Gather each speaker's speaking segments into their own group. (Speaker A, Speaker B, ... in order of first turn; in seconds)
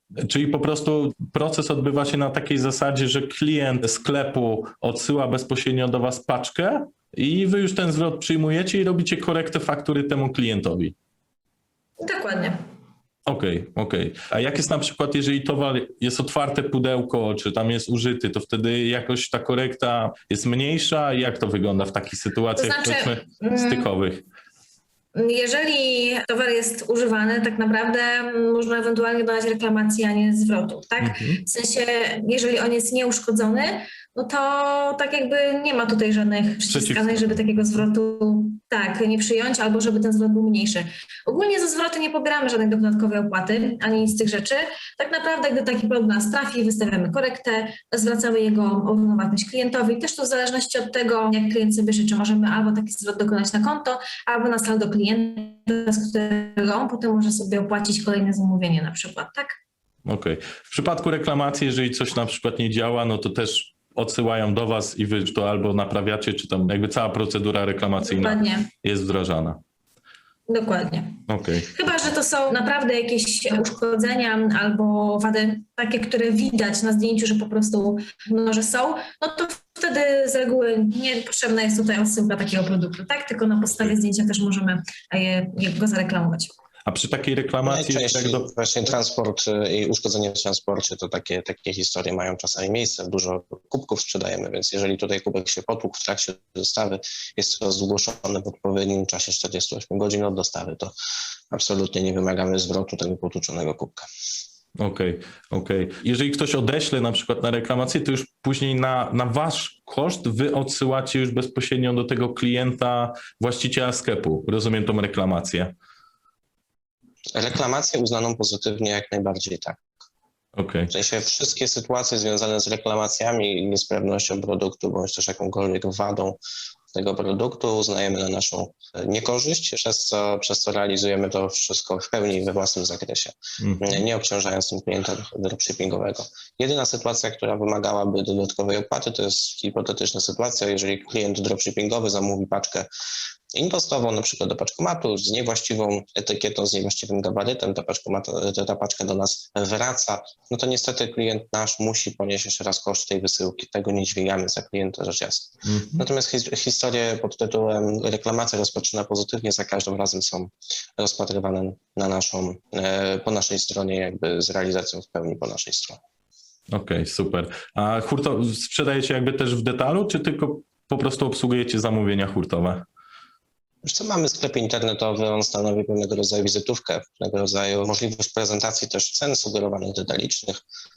Speaker A: 0.2-10.9, 13.3-24.2, 31.0-31.4, 36.7-37.4, 60.1-69.6, 71.3-71.7, 86.9-88.5, 104.8-115.7, 120.6-120.9, 133.6-134.0, 155.7-156.0, 166.7-172.8
Speaker B: 12.0-12.6, 22.6-23.9, 25.1-59.6, 68.0-68.7, 70.5-71.2, 71.7-86.5
Speaker C: 87.6-100.9, 101.5-104.1, 117.3-119.9, 120.9-126.4, 126.9-142.9, 143.5-166.0, 173.8-180.6